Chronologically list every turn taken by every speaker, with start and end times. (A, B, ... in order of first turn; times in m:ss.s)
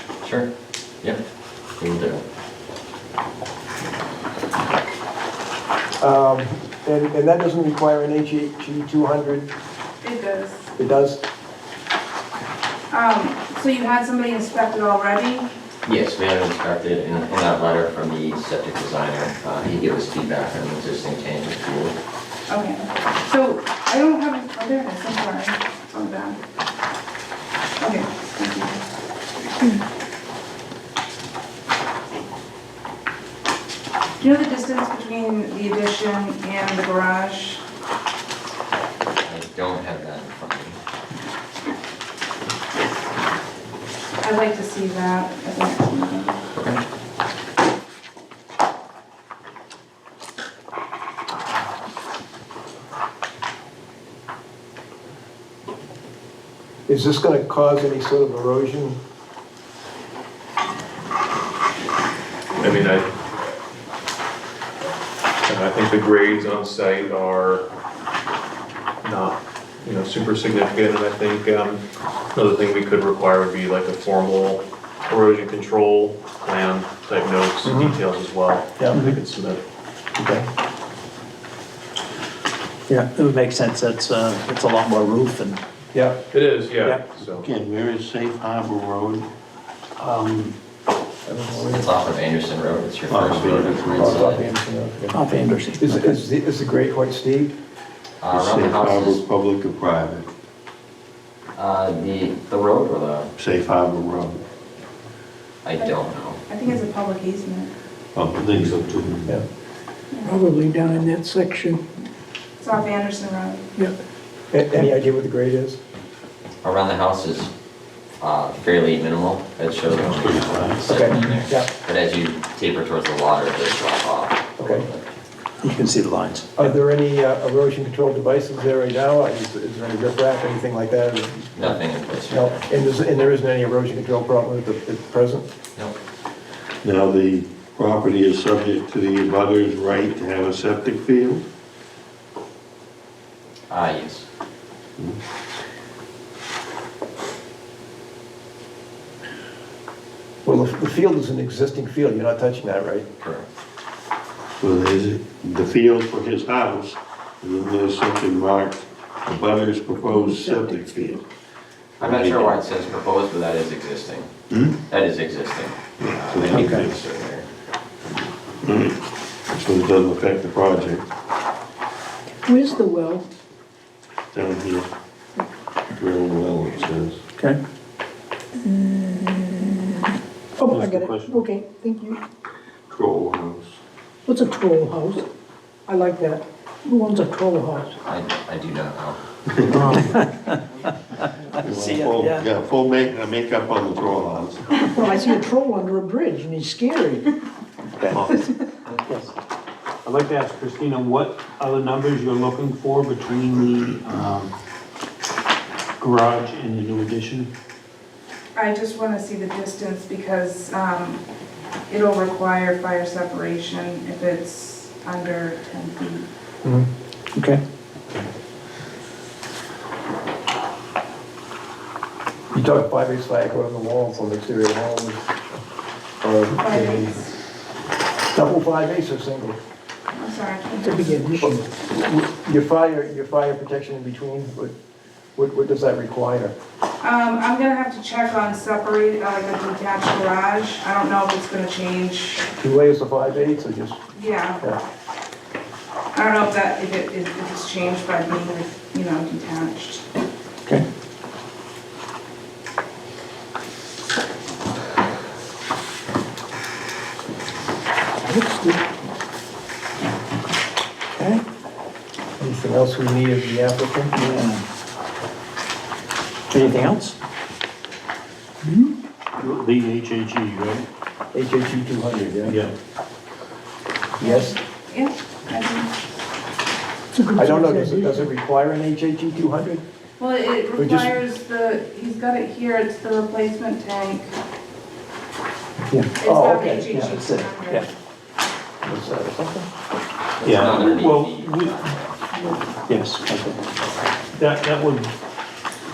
0:00.2-0:00.5 A
0:01.8-0:02.2 A
0:06.0-0:09.5 B
0:10.0-0:10.7 C
0:10.8-0:11.2 B
0:12.9-0:15.5 C
0:15.8-0:22.0 A
0:22.5-0:26.4 C
0:27.8-0:28.8 C
0:34.2-0:37.6 C
0:39.2-0:40.8 A
0:44.2-0:46.4 C
0:46.6-0:46.8 A
0:56.9-0:59.0 B
1:02.6-1:03.1 D
1:05.5-1:07.6 D
1:09.0-1:11.8 D
1:12.3-1:19.6 D
1:17.6-1:18.0 B
1:18.8-1:19.0 B
1:20.2-1:20.5 B
1:22.9-1:25.6 E
1:25.9-1:26.2 B
1:26.3-1:27.4 D
1:26.8-1:27.1 E
1:27.2-1:29.3 F
1:30.0-1:30.5 G
1:31.2-1:31.9 B
1:31.7-1:34.4 A
1:33.1-1:34.3 F
1:33.7-1:37.6 B
1:35.1-1:36.1 E
1:38.2-1:39.2 A
1:38.3-1:40.3 F
1:41.6-1:43.3 A
1:43.4-1:44.4 F
1:45.6-1:46.4 A
1:45.8-1:47.7 C
1:48.1-1:49.4 F
1:50.1-1:50.4 C
1:50.2-1:51.8 H
1:52.6-1:53.6 C
1:54.5-1:55.8 B
1:56.6-1:57.5 A
1:58.2-2:05.1 A
2:00.0-2:00.8 F
2:00.8-2:01.7 B
2:04.6-2:04.9 B
2:05.6-2:06.8 E
2:06.6-2:15.4 B
2:11.6-2:12.6 A
2:16.8-2:21.5 F
2:23.7-2:24.2 A
2:30.4-2:33.1 B
2:33.2-2:33.5 A
2:34.6-2:41.2 F
2:40.2-2:40.6 H
2:42.0-2:42.6 F
2:42.0-2:44.3 A
2:44.5-2:44.8 F
2:44.9-2:47.4 A
2:46.0-2:47.0 F
2:46.5-2:46.8 E
2:48.6-2:49.0 F
2:49.5-2:51.1 F
2:52.4-2:53.2 H
2:54.3-2:54.9 F
2:55.9-2:57.2 F
2:58.6-3:00.0 H
3:00.6-3:02.2 H
3:00.7-3:01.4 G
3:02.9-3:03.8 F
3:04.3-3:05.2 H
3:05.9-3:07.9 H
3:08.0-3:09.2 A
3:09.7-3:10.6 E
3:09.7-3:09.9 F
3:11.4-3:12.4 E
3:11.6-3:14.8 F
3:14.8-3:17.3 H
3:18.3-3:18.6 H
3:19.1-3:19.3 E
3:20.0-3:24.5 G
3:26.0-3:27.5 G
3:28.5-3:31.2 C
3:31.9-3:36.2 C
3:37.4-3:37.6 E
3:42.5-3:45.3 B
3:46.2-3:47.2 B
3:46.6-3:47.3 C
3:48.3-3:49.6 B
3:50.2-3:51.1 C
3:50.8-3:51.7 H
3:51.4-3:54.7 B
3:55.4-3:56.5 B
3:57.0-4:02.4 C
4:02.6-4:04.0 B
4:04.1-4:04.6 C
4:06.1-4:10.0 C
4:18.2-4:18.8 H
4:22.4-4:24.2 B
4:24.1-4:24.6 E
4:26.5-4:27.2 E
4:29.4-4:30.8 G
4:31.3-4:32.6 B
4:32.4-4:32.7 G
4:34.2-4:34.5 B
4:34.2-4:35.9 C
4:37.2-4:38.3 H
4:37.4-4:39.8 B
4:40.2-4:44.3 C
4:40.8-4:41.1 B
4:45.9-4:47.9 E
4:46.2-4:47.9 C
4:46.3-4:46.8 B
4:48.9-4:49.6 B
4:50.4-4:52.2 A
4:50.4-4:51.8 G
4:52.9-4:53.6 E
4:54.4-4:55.1 G